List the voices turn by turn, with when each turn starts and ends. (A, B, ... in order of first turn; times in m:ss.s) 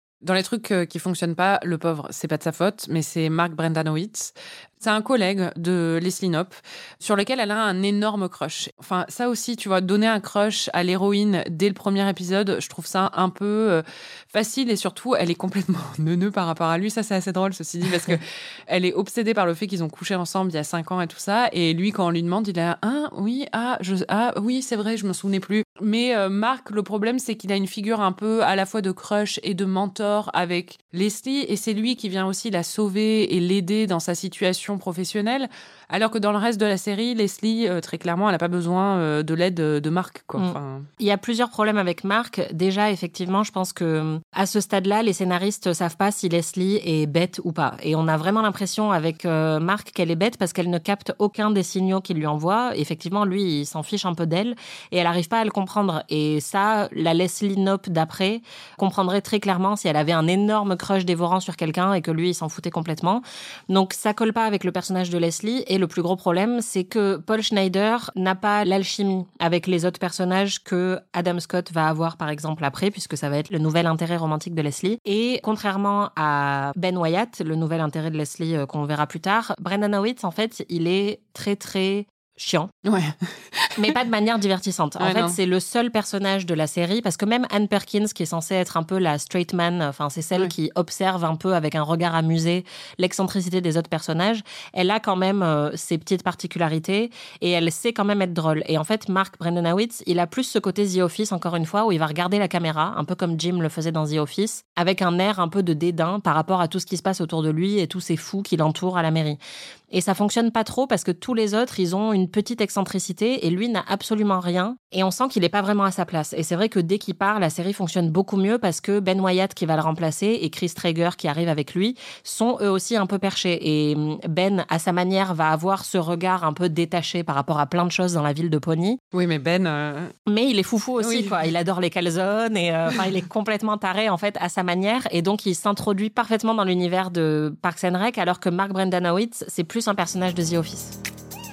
0:00.2-0:40.9 A
0:40.4-1:22.7 B
1:22.8-1:23.2 A
1:23.8-1:49.4 B
1:25.0-1:25.4 A
1:49.9-2:09.0 B
2:09.1-2:10.1 A
2:10.2-2:21.0 B
2:11.0-2:11.4 A